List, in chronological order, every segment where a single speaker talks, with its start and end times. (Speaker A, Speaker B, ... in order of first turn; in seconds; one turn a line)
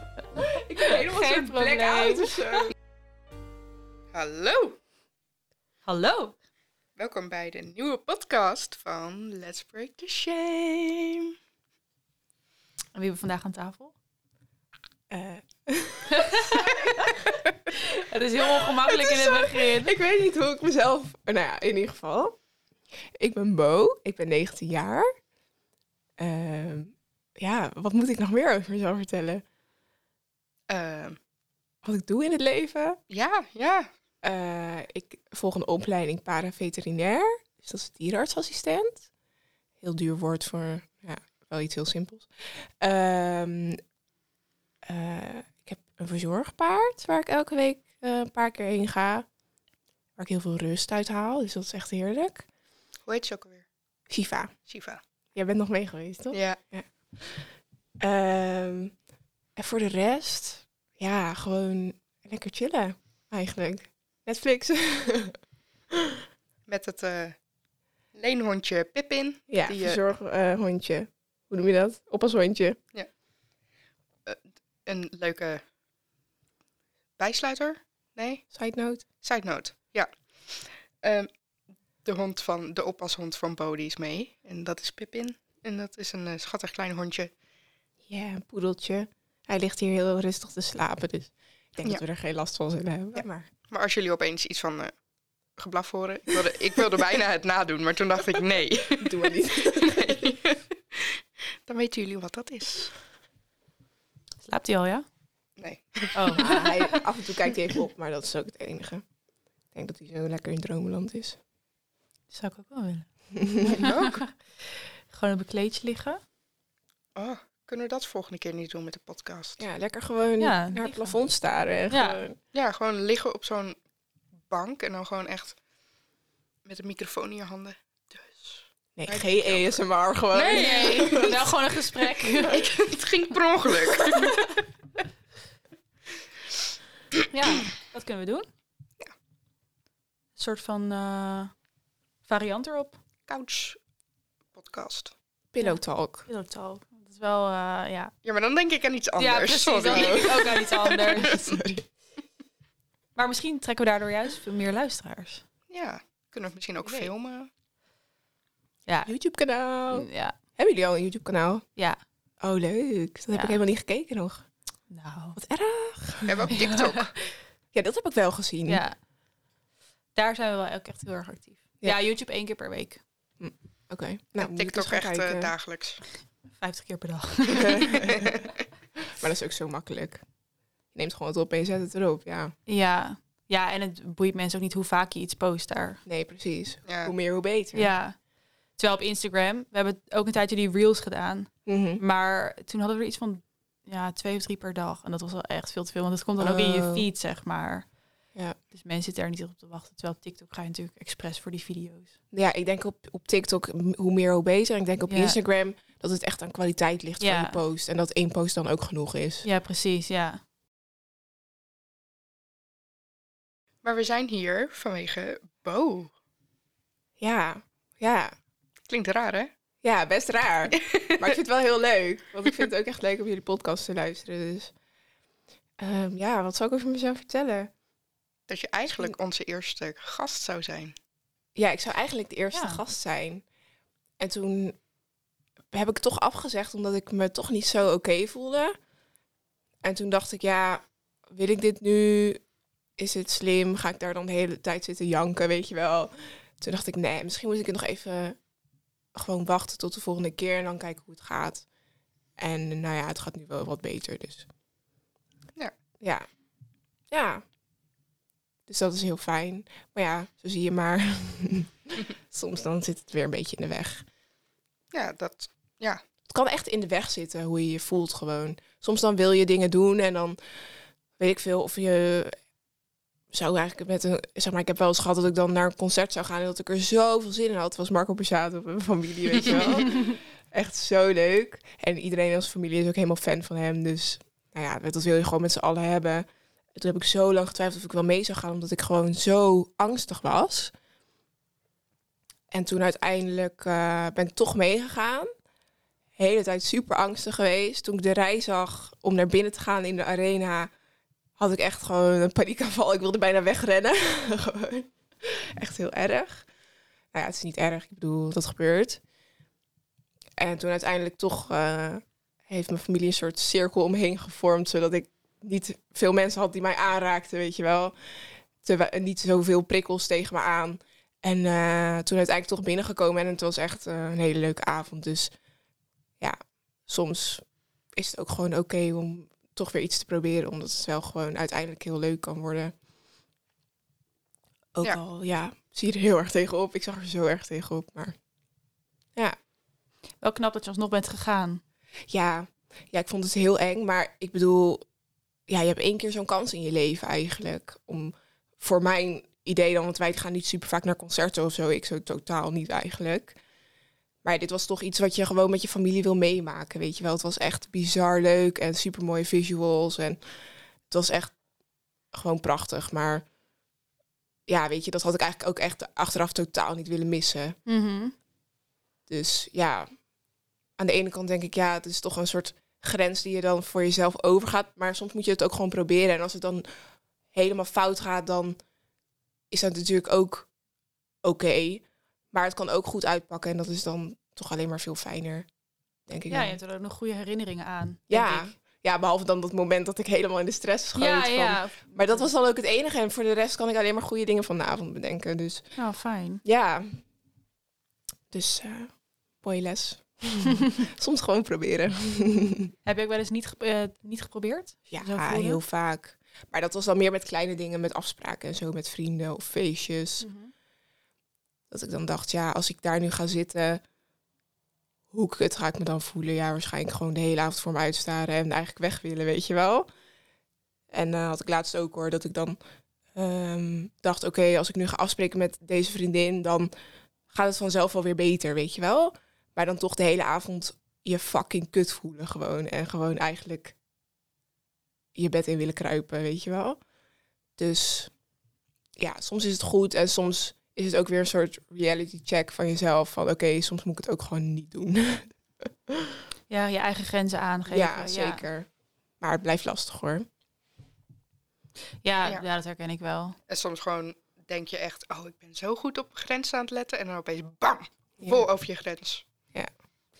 Speaker A: 0.3-2.7
Speaker B: 0.8-2.7
Speaker C: 4.1-4.8
Speaker B: 5.8-6.4
Speaker C: 7.0-11.3
Speaker B: 12.9-13.9
Speaker A: 15.1-17.2
Speaker B: 16.2-16.6
Speaker B: 17.9-19.9
Speaker A: 18.8-22.4
Speaker A: 23.2-25.1
Speaker A: 26.2-29.4
Speaker C: 30.7-31.2
Speaker A: 31.8-33.0
Speaker C: 33.1-33.9
Speaker A: 34.2-39.1
Speaker A: 39.8-43.8
Speaker A: 44.9-49.3
Speaker A: 50.2-52.5
Speaker C: 53.0-53.6
Speaker A: 54.1-54.5
Speaker C: 54.7-55.0
Speaker A: 55.3-59.0
Speaker C: 56.3-56.6
Speaker A: 59.5-65.4
Speaker C: 66.7-67.4
Speaker C: 68.1-70.0
Speaker A: 69.5-72.8
Speaker C: 74.2-75.6
Speaker C: 77.2-78.5
Speaker A: 78.5-79.1
Speaker C: 79.2-81.3
Speaker C: 82.0-87.3
Speaker A: 88.1-93.5
Speaker C: 93.2-94.9
Speaker C: 95.6-103.0
Speaker A: 99.0-100.3
Speaker B: 104.4-105.1
Speaker C: 105.6-106.7
Speaker B: 106.2-106.8
Speaker A: 106.4-109.0
Speaker A: 109.7-111.4
Speaker B: 112.3-116.2
Speaker C: 113.8-114.2
Speaker C: 117.2-119.6
Speaker A: 119.6-122.4
Speaker B: 120.4-121.2
Speaker B: 121.9-122.2
Speaker C: 122.5-123.8
Speaker C: 124.5-125.6
Speaker C: 126.6-129.8
Speaker A: 128.9-131.6
Speaker C: 130.3-131.2
Speaker B: 130.3-132.7
Speaker C: 132.5-134.6
Speaker B: 137.3-138.5
Speaker B: 140.3-141.6
Speaker B: 142.2-143.0
Speaker C: 143.3-143.8
Speaker C: 144.5-145.1
Speaker A: 145.5-146.3
Speaker B: 145.6-148.1
Speaker C: 148.2-151.5
Speaker B: 149.2-151.4
Speaker A: 149.9-150.5
Speaker A: 151.2-151.9
Speaker B: 153.1-155.4
Speaker C: 155.7-157.5
Speaker B: 156.8-157.1
Speaker B: 158.9-159.1
Speaker A: 159.1-161.6
Speaker B: 159.9-160.3
Speaker A: 162.4-164.5
Speaker B: 163.3-163.6
Speaker B: 164.9-165.4
Speaker A: 165.3-166.5
Speaker C: 166.2-167.1
Speaker B: 166.5-167.1
Speaker A: 167.7-168.8
Speaker B: 168.7-168.9
Speaker B: 170.1-173.0
Speaker A: 173.4-175.5
Speaker C: 174.3-176.0
Speaker B: 176.5-178.1
Speaker A: 177.6-178.4
Speaker A: 179.1-180.2
Speaker A: 180.9-182.5
Speaker B: 182.7-186.0
Speaker A: 186.0-187.9
Speaker C: 186.8-187.1
Speaker B: 187.7-188.2
Speaker B: 188.8-197.9
Speaker A: 191.7-192.0
Speaker A: 196.4-197.1
Speaker B: 198.7-202.1
Speaker A: 202.3-209.5
Speaker B: 205.1-205.3
Speaker B: 207.2-207.6
Speaker B: 209.4-210.4
Speaker C: 213.8-216.1
Speaker A: 217.2-218.3
Speaker C: 218.9-219.5
Speaker A: 219.8-224.7
Speaker C: 220.8-221.3
Speaker A: 225.8-227.7
Speaker C: 228.5-230.9
Speaker A: 231.6-233.4
Speaker B: 232.5-232.8
Speaker A: 234.2-234.8
Speaker A: 235.7-238.8
Speaker A: 239.8-242.4
Speaker A: 243.0-248.4
Speaker A: 249.1-251.7
Speaker A: 252.4-254.5
Speaker A: 256.0-256.3
Speaker A: 257.1-257.4
Speaker A: 258.7-264.1
Speaker C: 264.9-266.0
Speaker A: 266.3-270.6
Speaker A: 271.2-272.4
Speaker A: 273.3-290.7
Speaker C: 279.3-279.9
Speaker A: 292.5-295.3
Speaker A: 296.2-300.7
Speaker A: 301.4-306.5
Speaker A: 307.1-309.0
Speaker A: 310.4-325.3
Speaker A: 326.2-332.7
Speaker A: 334.8-338.2
Speaker B: 340.2-341.6
Speaker A: 342.1-344.9
Speaker A: 345.5-353.4
Speaker A: 354.2-360.2
Speaker A: 360.9-361.4
Speaker A: 362.1-363.2
Speaker A: 364.5-367.6
Speaker B: 367.7-368.1
Speaker A: 369.1-369.9
Speaker A: 370.8-378.6
Speaker A: 379.5-380.5
Speaker A: 381.2-385.5
Speaker A: 386.1-386.6
Speaker B: 386.3-388.6
Speaker A: 388.1-395.8
Speaker B: 391.0-392.3
Speaker B: 395.8-396.4
Speaker A: 396.4-397.1
Speaker A: 398.3-402.7
Speaker B: 402.9-405.6
Speaker A: 404.9-410.3
Speaker B: 410.2-410.5
Speaker A: 411.7-413.8
Speaker A: 415.1-419.9
Speaker A: 420.9-422.6
Speaker A: 423.1-426.7
Speaker A: 427.3-433.8
Speaker A: 435.1-436.8
Speaker A: 437.6-438.1
Speaker A: 439.0-446.1
Speaker B: 446.5-448.4
Speaker A: 447.7-450.3
Speaker B: 452.0-453.4
Speaker C: 453.5-459.2
Speaker A: 458.2-458.5